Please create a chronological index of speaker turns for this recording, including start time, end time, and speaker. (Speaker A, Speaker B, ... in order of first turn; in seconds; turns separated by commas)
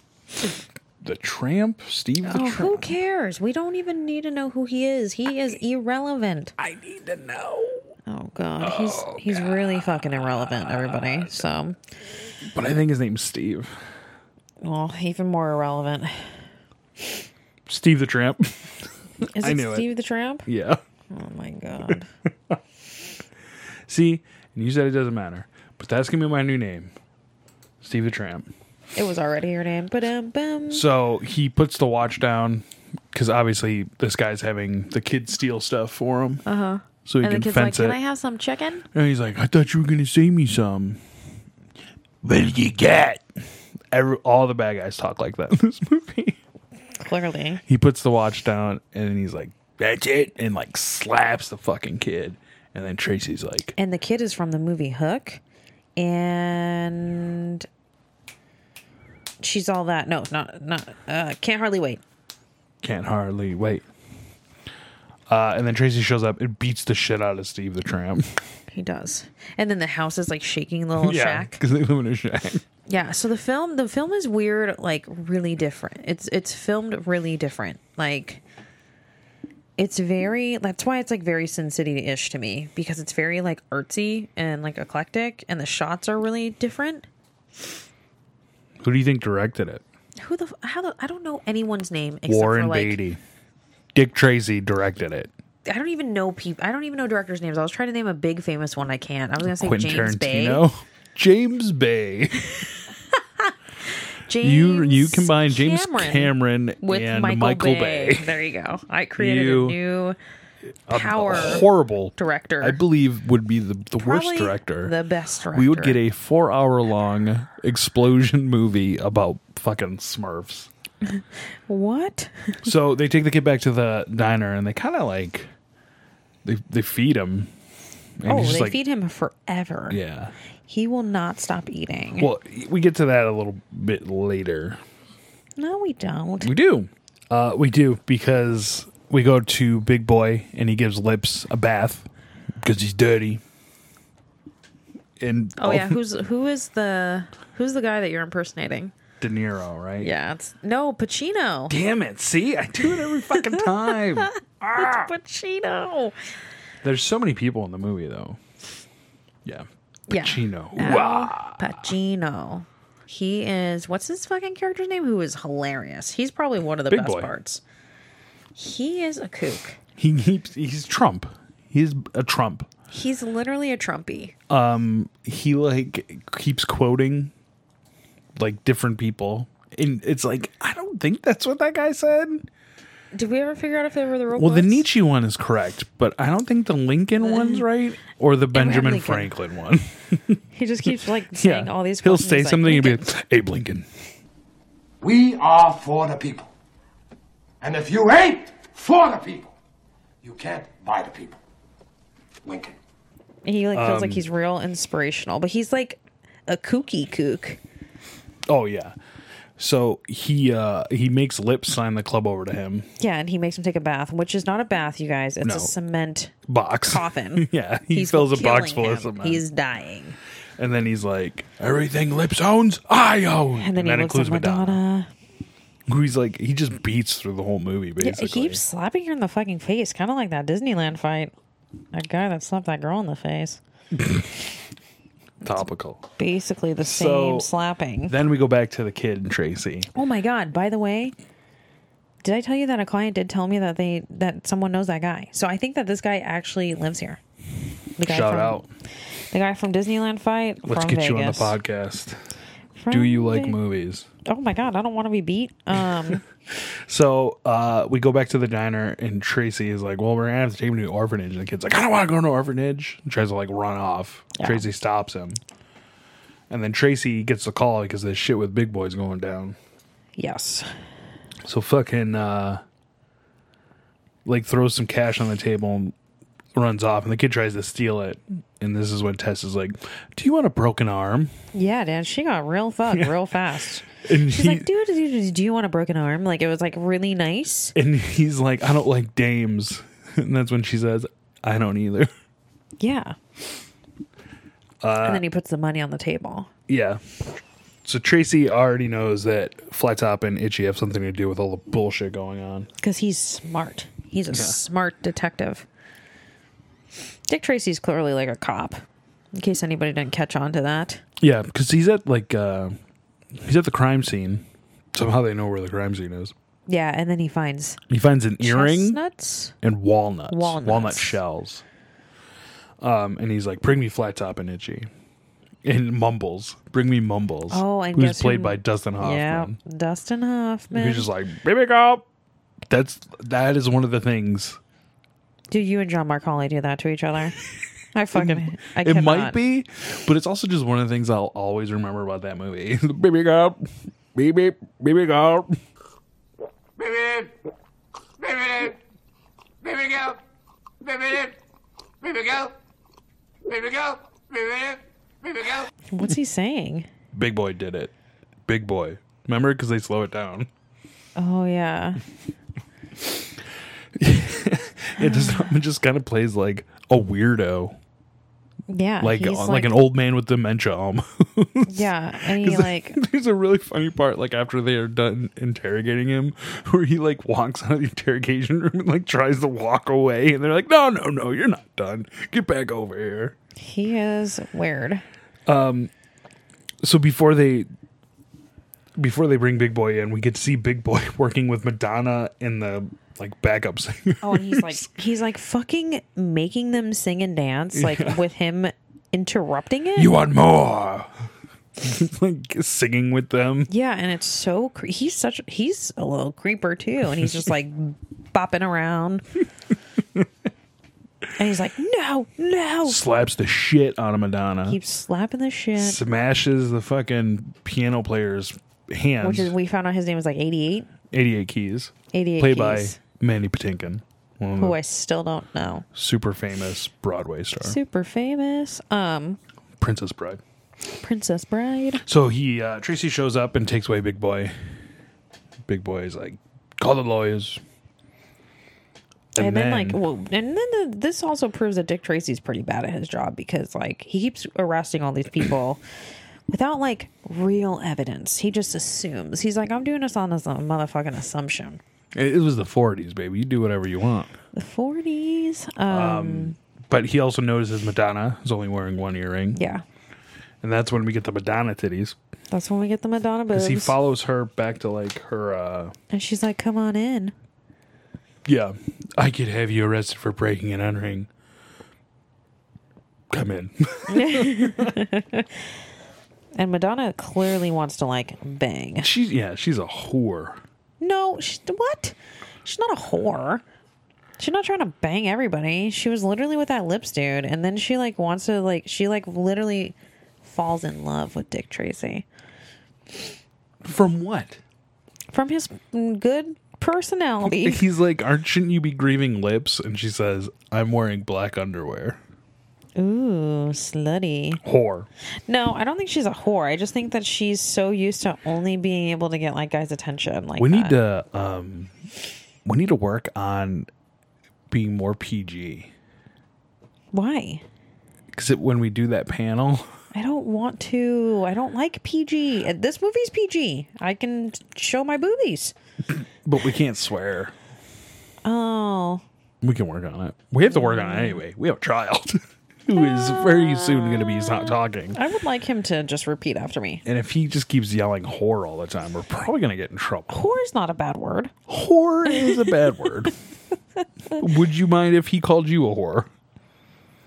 Speaker A: 1.0-3.0, Speaker B: 2.3-6.5, Speaker A: 6.6-7.8, Speaker B: 8.1-11.8, Speaker A: 8.6-11.5, Speaker A: 12.4-13.8, Speaker B: 14.6-16.3, Speaker A: 17.7-19.9, Speaker B: 19.4-20.5, Speaker A: 20.5-20.8, Speaker B: 21.1-22.1, Speaker A: 23.9-26.9, Speaker A: 27.8-28.5, Speaker B: 28.9-30.9, Speaker A: 30.7-36.4, Speaker B: 36.5-38.9, Speaker A: 37.0-38.0, Speaker A: 38.9-41.0, Speaker A: 42.2-43.2, Speaker A: 43.9-46.4, Speaker B: 47.0-47.6, Speaker A: 47.7-53.8, Speaker B: 53.8-55.4, Speaker B: 56.0-57.7, Speaker B: 59.4-62.0, Speaker A: 62.8-63.9, Speaker A: 65.3-68.4, Speaker B: 68.7-71.6, Speaker A: 71.0-72.6, Speaker B: 72.9-78.4, Speaker B: 79.8-87.1, Speaker A: 88.8-89.8, Speaker B: 90.2-93.0, Speaker A: 92.3-93.2, Speaker A: 93.9-95.3, Speaker B: 95.7-100.7, Speaker A: 99.4-102.7, Speaker B: 104.3-110.2, Speaker A: 104.3-108.4, Speaker A: 109.2-109.8, Speaker A: 110.9-114.9, Speaker B: 110.9-112.8, Speaker B: 114.0-116.0, Speaker A: 115.5-120.7, Speaker B: 121.1-122.7, Speaker A: 122.6-125.5, Speaker A: 126.4-127.5, Speaker A: 128.2-128.8, Speaker B: 128.3-130.0, Speaker A: 129.9-130.3, Speaker B: 130.7-132.3, Speaker A: 132.2-134.8, Speaker B: 135.6-136.5, Speaker A: 136.4-142.1, Speaker A: 142.6-143.4, Speaker A: 145.2-146.0, Speaker B: 145.6-148.9, Speaker A: 149.2-150.1, Speaker B: 150.0-151.8, Speaker A: 151.7-155.1, Speaker B: 153.3-156.2, Speaker A: 156.8-158.4, Speaker A: 159.4-161.9, Speaker B: 160.1-167.6, Speaker A: 166.9-167.3, Speaker B: 168.6-169.8, Speaker A: 170.0-172.7, Speaker B: 172.9-174.3, Speaker A: 174.5-177.3, Speaker A: 178.4-182.5, Speaker B: 183.1-184.8, Speaker A: 184.3-193.9, Speaker B: 187.2-187.7, Speaker B: 188.5-189.3, Speaker B: 190.5-193.1, Speaker C: 195.0-196.5, Speaker C: 197.6-199.5, Speaker C: 200.2-201.4, Speaker C: 202.4-202.7, Speaker B: 203.4-207.6, Speaker A: 203.7-204.2, Speaker A: 208.5-209.0, Speaker A: 209.6-212.9, Speaker B: 213.0-220.2, Speaker A: 215.4-215.7, Speaker A: 216.5-219.4, Speaker A: 220.6-224.8, Speaker B: 223.6-225.1, Speaker A: 225.9-228.6, Speaker B: 228.0-231.3, Speaker B: 231.9-233.6, Speaker A: 234.0-234.2, Speaker A: 235.4-236.1, Speaker B: 236.2-238.2, Speaker A: 236.8-237.5, Speaker A: 238.1-239.9, Speaker B: 239.9-241.2, Speaker B: 242.2-247.2, Speaker B: 248.0-248.6, Speaker A: 248.0-248.7, Speaker B: 249.3-251.6, Speaker A: 250.7-252.2, Speaker B: 252.8-253.6, Speaker A: 252.9-254.1, Speaker B: 254.3-256.2, Speaker A: 256.5-265.4, Speaker B: 264.4-264.7, Speaker A: 266.5-269.6, Speaker B: 270.2-270.7, Speaker A: 271.4-272.6, Speaker A: 274.2-275.9, Speaker A: 276.6-281.3, Speaker B: 281.5-287.8, Speaker A: 282.9-283.2, Speaker A: 283.9-284.7, Speaker A: 287.8-292.1, Speaker B: 292.8-293.2, Speaker A: 294.8-295.2, Speaker B: 295.0-296.5, Speaker A: 296.7-297.0, Speaker A: 297.9-302.7, Speaker B: 302.8-305.7, Speaker A: 304.3-304.6, Speaker B: 307.3-308.8, Speaker B: 309.3-311.0, Speaker A: 311.2-312.8, Speaker A: 313.3-316.3, Speaker B: 316.7-317.8, Speaker A: 317.9-319.0, Speaker B: 318.4-319.5, Speaker A: 319.6-321.6, Speaker B: 320.3-321.2, Speaker A: 322.8-324.9, Speaker A: 325.6-329.6, Speaker B: 327.5-331.1, Speaker A: 330.7-332.1, Speaker A: 332.7-334.6, Speaker B: 335.5-337.4, Speaker B: 337.9-339.4, Speaker A: 338.1-345.6, Speaker C: 349.8-350.1, Speaker C: 352.1-352.5, Speaker C: 353.6-353.9, Speaker B: 355.9-356.9, Speaker A: 357.1-357.9, Speaker A: 358.5-360.5, Speaker B: 361.2-362.0, Speaker A: 364.0-367.8, Speaker B: 365.0-365.5, Speaker B: 368.7-369.8, Speaker A: 369.0-383.4, Speaker B: 371.7-373.0, Speaker B: 383.6-385.0, Speaker A: 385.5-385.9, Speaker A: 386.8-387.7, Speaker A: 389.0-394.9, Speaker B: 394.2-400.1, Speaker A: 397.7-398.2, Speaker A: 400.0-401.1, Speaker A: 401.8-403.7, Speaker B: 403.7-409.2, Speaker B: 411.4-413.0, Speaker A: 412.9-414.8, Speaker B: 414.7-416.0, Speaker A: 415.8-419.6, Speaker B: 419.2-420.9, Speaker A: 421.1-424.8, Speaker B: 422.1-423.0, Speaker B: 424.6-425.9, Speaker A: 425.9-427.8, Speaker B: 427.6-429.4, Speaker A: 429.8-430.4, Speaker B: 431.0-432.0, Speaker A: 432.0-434.5, Speaker A: 435.7-437.6, Speaker A: 439.3-440.0, Speaker B: 439.4-445.8, Speaker B: 446.5-451.8, Speaker A: 452.1-454.3, Speaker B: 454.5-456.6, Speaker A: 455.9-459.6, Speaker B: 459.5-459.8, Speaker A: 460.6-462.2, Speaker B: 462.5-464.0, Speaker A: 463.5-465.9, Speaker B: 466.1-467.3, Speaker A: 468.4-471.3, Speaker A: 473.3-475.0, Speaker B: 474.1-475.5, Speaker B: 476.6-479.1, Speaker A: 479.0-480.6, Speaker B: 481.0-483.6, Speaker B: 484.4-492.3, Speaker A: 493.8-494.6, Speaker B: 495.3-497.8, Speaker A: 497.4-502.2, Speaker B: 503.0-504.6, Speaker A: 504.6-505.1, Speaker B: 505.5-511.0, Speaker A: 510.6-511.9, Speaker A: 512.6-513.9, Speaker A: 514.7-515.9, Speaker B: 517.1-517.6, Speaker A: 518.3-519.9, Speaker B: 520.1-525.7, Speaker A: 526.1-527.5, Speaker B: 528.4-529.2, Speaker A: 529.6-535.2, Speaker B: 530.7-531.4, Speaker B: 533.0-537.0, Speaker A: 537.0-540.4, Speaker B: 540.3-541.5, Speaker A: 541.7-543.3, Speaker B: 542.3-542.7, Speaker A: 544.4-546.3